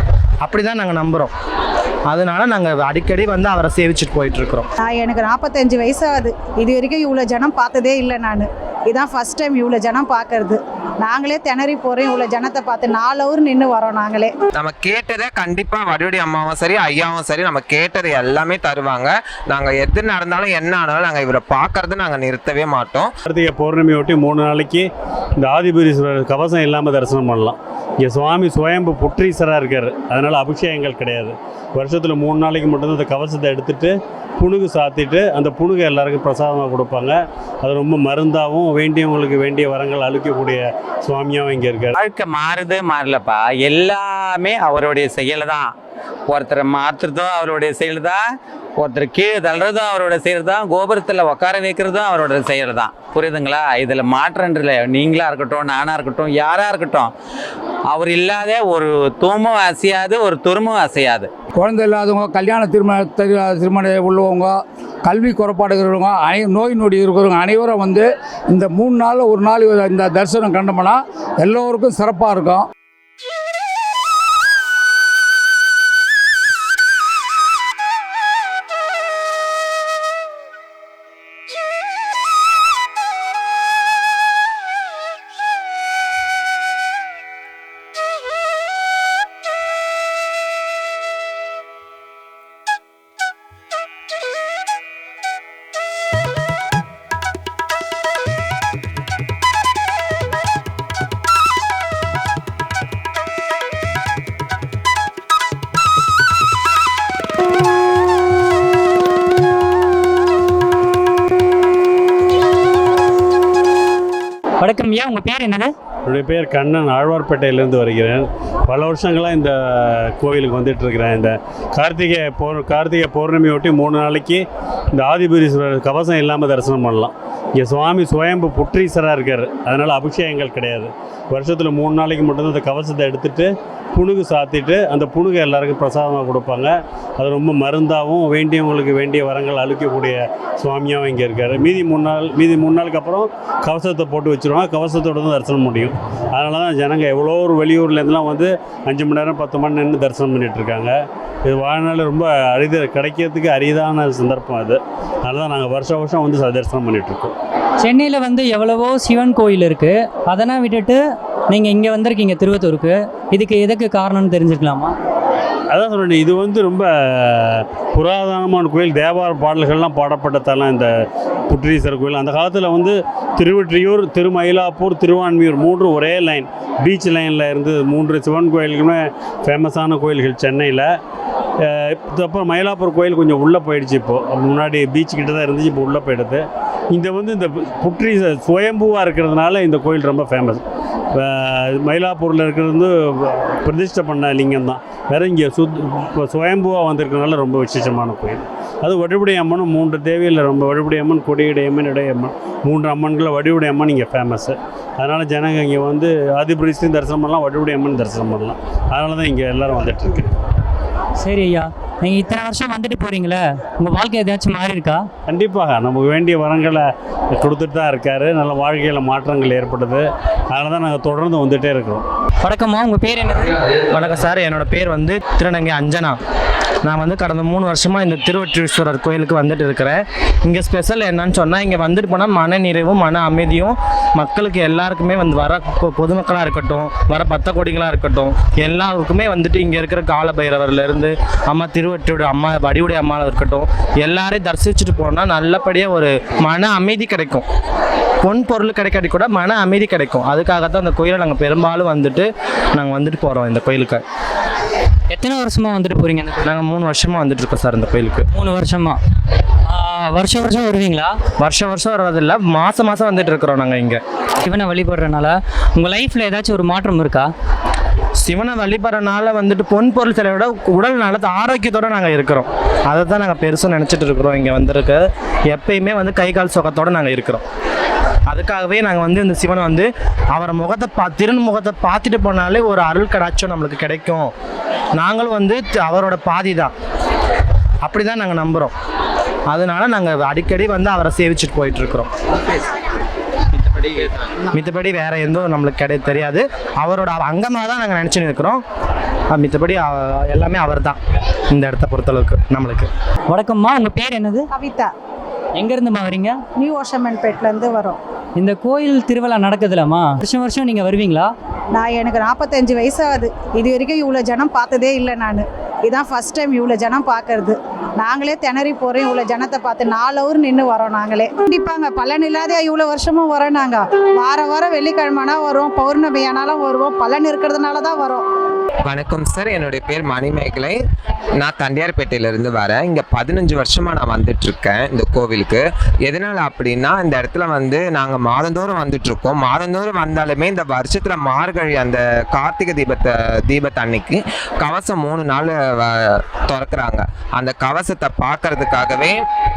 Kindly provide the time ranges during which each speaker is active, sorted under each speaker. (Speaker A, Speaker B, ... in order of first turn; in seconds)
Speaker A: 0.4-1.3, 2.1-4.7, 223.9-226.2, 226.8-247.5, 248.2-254.0, 256.4-258.3, 261.4-264.0, 268.2-277.4, 278.3-284.3, 285.0-286.7, 287.8-288.7, 289.5-292.1, 294.5-298.6, 299.3-301.0, 301.5-302.9
Speaker B: 4.9-14.3, 304.6-304.9, 306.6-308.0, 311.8-328.2
Speaker C: 14.6-23.1, 328.9-330.8, 331.4-349.2
Speaker D: 23.3-42.0, 116.1-157.3, 165.7-170.9, 171.5-181.0, 181.6-190.6, 191.1-210.3, 215.3-222.1
Speaker E: 42.0-45.7, 46.3-48.2, 48.8-57.1, 57.9-61.3
Speaker F: 61.8-64.5, 65.1-68.0, 68.6-72.7
Speaker G: 114.6-115.7, 157.8-164.9, 211.2-215.1, 222.4-223.6, 255.1-256.5, 258.3-259.0, 259.7-261.2, 264.4-267.3, 303.3-304.5, 305.6-306.4, 308.4-311.3